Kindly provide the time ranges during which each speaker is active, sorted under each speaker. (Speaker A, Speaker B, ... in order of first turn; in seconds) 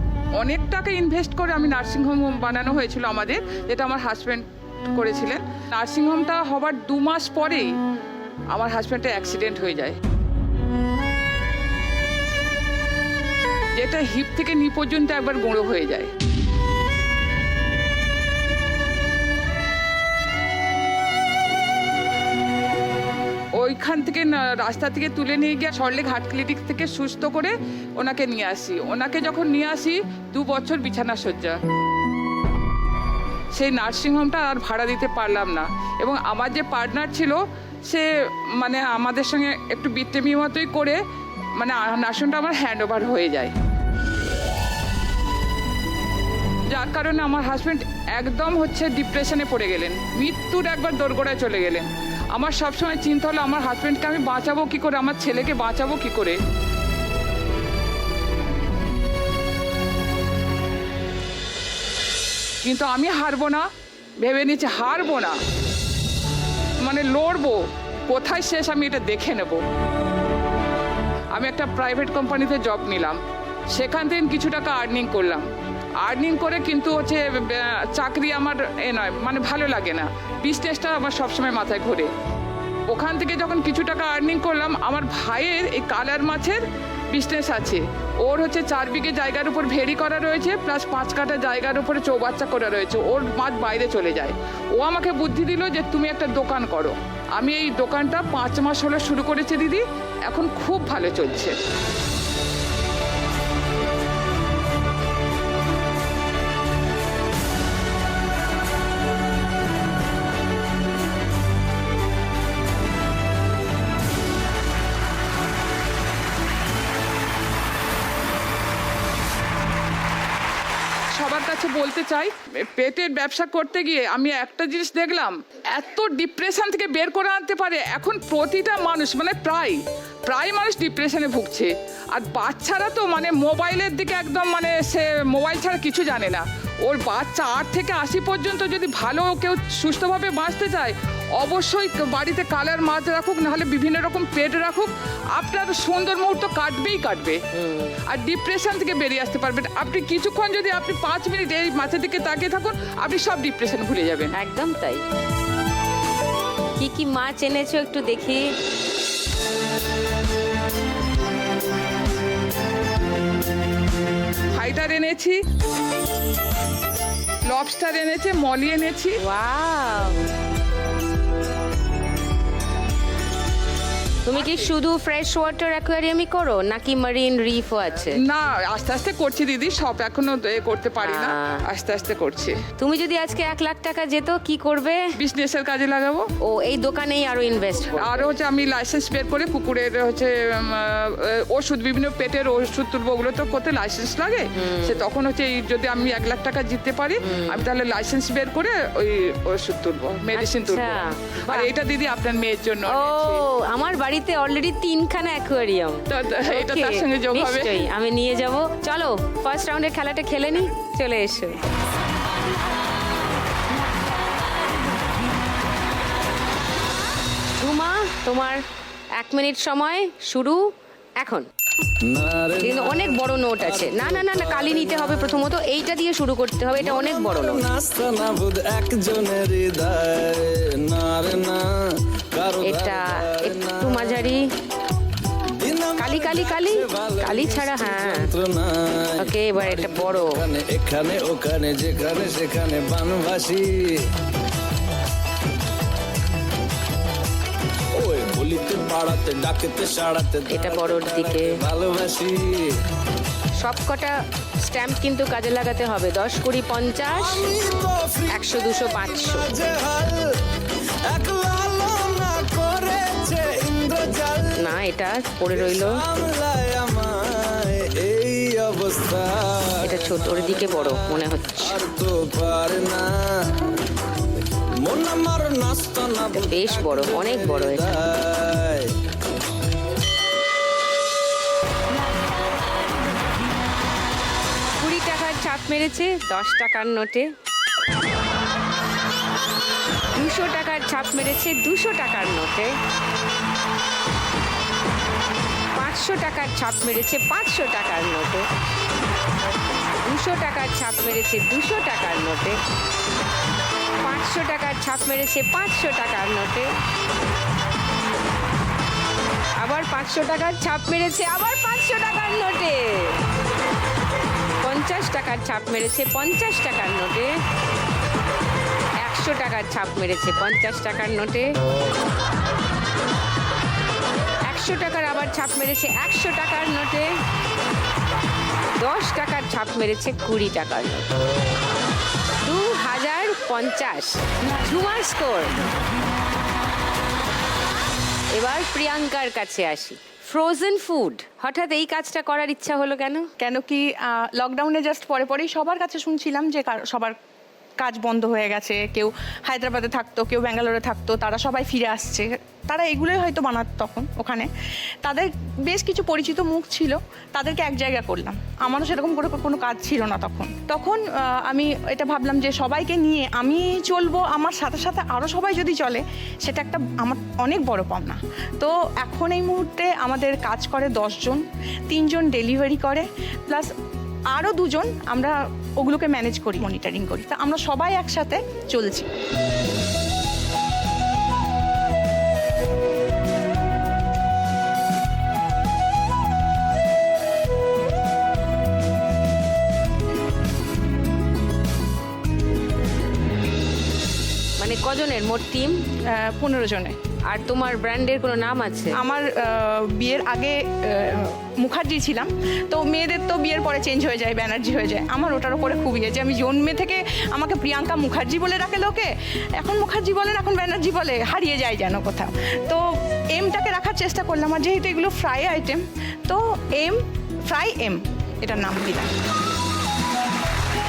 Speaker A: 0.4-7.7, 8.5-10.0, 13.8-16.1, 23.6-31.6, 33.5-41.0, 41.6-43.5, 46.7-56.4, 62.6-63.7, 64.2-65.4, 66.8-69.6, 71.3-73.2, 73.7-75.5, 76.0-82.1, 82.9-101.5, 121.2-147.4, 148.1-154.3, 164.5-165.4, 167.5-169.2, 174.3-174.7, 178.2-182.6, 185.2-186.3, 188.0-203.4, 206.1-207.9
Speaker B: 147.5-148.0, 154.3-155.0, 156.8-158.5, 169.2-170.2, 174.2-178.2, 181.0-181.6, 182.8-185.1, 186.4-188.3, 194.6-195.0, 197.2-197.6, 200.3-201.7, 202.9-211.6, 217.6-218.6, 219.2-220.6, 221.2-221.5, 222.6-227.6, 232.6-234.4, 236.0-238.3, 239.2-240.4, 250.5-251.5, 253.6-254.1, 254.7-257.5, 258.3-259.4, 264.6-266.0, 269.8-271.8, 276.4-277.9, 284.8-287.3, 290.1-292.8, 295.8-298.5, 300.0-302.6, 304.0-306.7, 309.6-313.2, 314.6-317.4, 319.0-321.5, 324.4-327.1, 328.8-331.1, 332.4-335.5, 338.3-343.3, 394.6-395.8, 397.2-399.0
Speaker C: 222.1-225.4, 226.8-231.7, 232.3-234.2, 235.6-244.0, 247.9-252.7, 257.1-260.2, 261.1-264.7, 265.5-273.6, 274.8-278.9
Speaker D: 343.4-347.1, 347.8-354.5, 355.0-373.7, 374.3-379.1, 396.1-397.0, 398.9-419.1